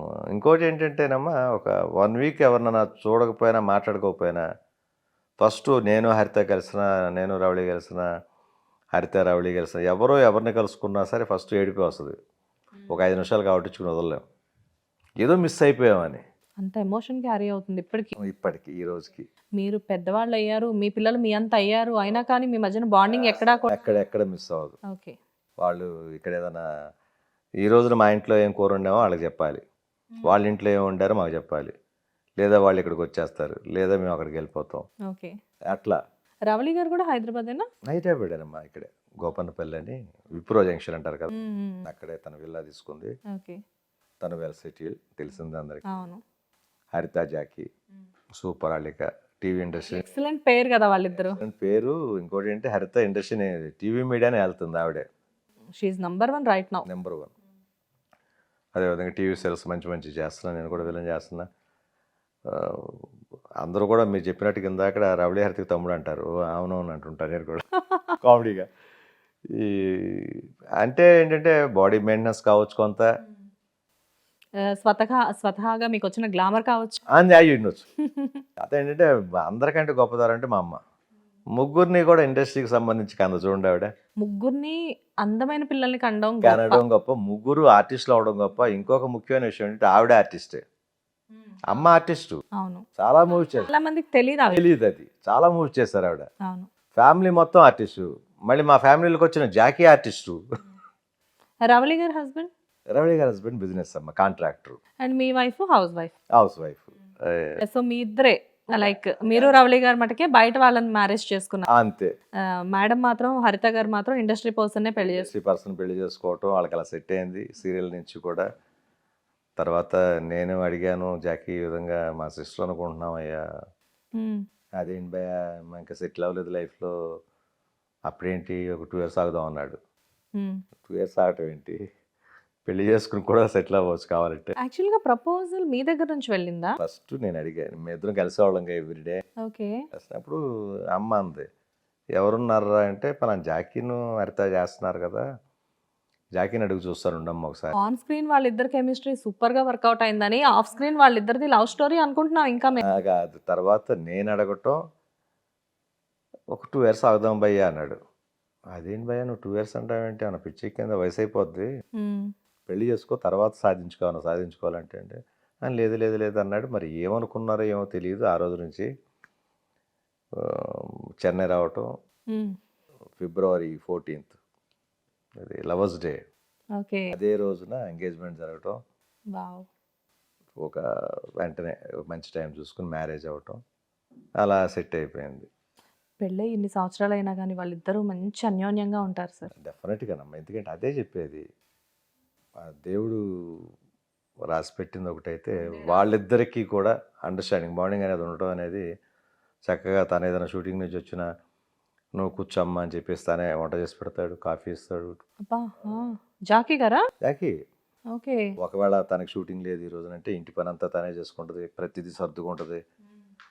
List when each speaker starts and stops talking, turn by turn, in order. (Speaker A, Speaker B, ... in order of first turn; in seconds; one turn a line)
Speaker A: 0.3-4.4
Speaker A: 5.4-8.1
Speaker A: 8.9-12.1
Speaker A: 12.9-14.2
Speaker A: 15.2-16.2
Speaker B: 16.6-18.1
Speaker A: 18.2-19.2
Speaker B: 19.6-23.8
Speaker A: 23.7-24.8
Speaker B: 24.9-25.2
Speaker A: 25.6-26.6
Speaker A: 27.6-29.6
Speaker A: 30.2-31.7
Speaker A: 32.4-34.8
Speaker B: 35.1-35.4
Speaker A: 35.7-36.0
Speaker B: 36.5-37.7
Speaker A: 37.9-41.3
Speaker B: 41.3-41.8
Speaker A: 41.8-43.1
Speaker B: 43.3-43.6
Speaker A: 44.2-45.8
Speaker B: 45.9-46.2
Speaker A: 46.9-47.7
Speaker A: 48.4-50.0
Speaker B: 49.9-51.4
Speaker A: 51.2-55.0
Speaker B: 55.8-56.8
Speaker A: 56.8-57.3
Speaker A: 58.7-61.5
Speaker A: 62.5-63.0
Speaker A: 63.6-67.6
Speaker A: 68.2-68.7
Speaker A: 69.5-73.0
Speaker B: 74.7-77.0
Speaker A: 77.1-77.8
Speaker B: 78.1-78.4
Speaker A: 78.6-80.8
Speaker A: 81.5-83.9
Speaker B: 84.2-86.8
Speaker A: 86.4-90.6
Speaker A: 91.7-92.4
Speaker B: 92.6-92.8
Speaker A: 93.0-93.7
Speaker B: 93.5-94.6
Speaker A: 94.5-96.3
Speaker A: 97.0-100.4
Speaker B: 101.7-102.5
Speaker A: 102.9-104.8
Speaker B: 105.0-106.1
Speaker A: 106.3-107.5
Speaker B: 107.6-111.7
Speaker A: 108.8-109.5
Speaker A: 111.7-112.1
Speaker B: 112.7-115.3
Speaker A: 115.0-118.5
Speaker A: 119.6-123.4
Speaker B: 124.2-124.4
Speaker A: 124.8-126.9
Speaker A: 128.1-129.8
Speaker A: 130.9-131.8
Speaker A: 132.7-134.5
Speaker B: 134.6-136.8
Speaker A: 136.8-139.2
Speaker B: 139.4-139.8
Speaker A: 139.9-140.4
Speaker A: 140.9-141.4
Speaker A: 142.2-145.2
Speaker A: 146.4-147.7
Speaker B: 147.8-152.8
Speaker A: 152.8-154.8
Speaker A: 156.5-158.0
Speaker A: 158.7-161.7
Speaker B: 162.0-162.3
Speaker A: 162.7-168.9
Speaker A: 170.4-171.9
Speaker A: 173.2-174.3
Speaker A: 175.4-176.2
Speaker B: 176.8-177.1
Speaker A: 177.1-178.8
Speaker B: 179.3-179.7
Speaker A: 180.6-180.8
Speaker A: 181.4-183.6
Speaker A: 184.4-185.5
Speaker B: 186.2-189.5
Speaker A: 189.6-191.4
Speaker A: 192.6-193.7
Speaker A: 194.5-198.8
Speaker A: 199.7-201.2
Speaker A: 202.2-205.2
Speaker B: 205.4-207.0
Speaker A: 207.2-207.5
Speaker B: 208.1-208.5
Speaker A: 208.6-212.8